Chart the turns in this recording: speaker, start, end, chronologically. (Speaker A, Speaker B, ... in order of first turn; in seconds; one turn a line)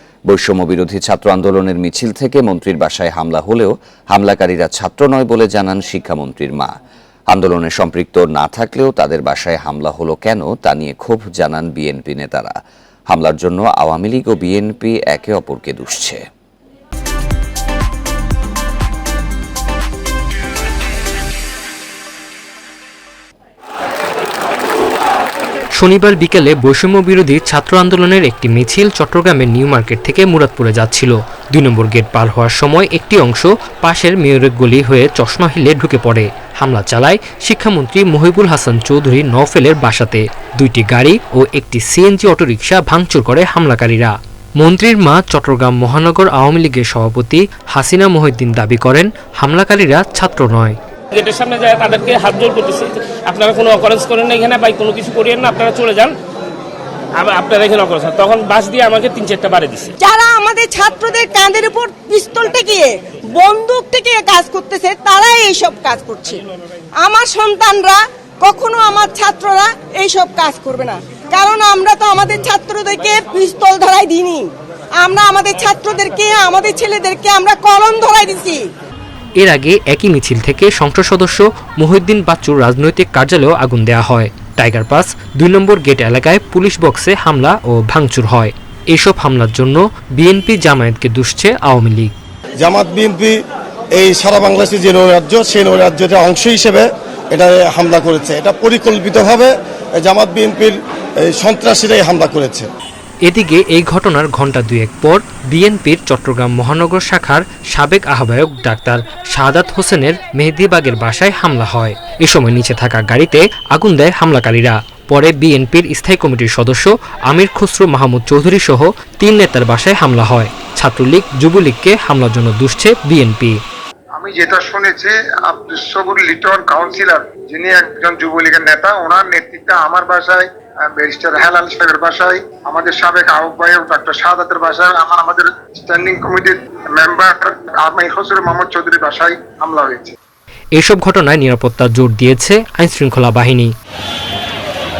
Speaker A: 0.3-6.7
Speaker A: 7.3-12.5
Speaker A: 13.1-16.2
Speaker B: 25.7-50.8
Speaker C: 51.1-56.1
Speaker C: 57.1-59.9
Speaker D: 60.0-66.4
Speaker D: 67.0-78.6
Speaker B: 79.4-92.1
Speaker E: 92.6-93.4
Speaker E: 94.0-102.7
Speaker B: 103.2-123.6
Speaker F: 124.2-140.1
Speaker B: 140.7-143.7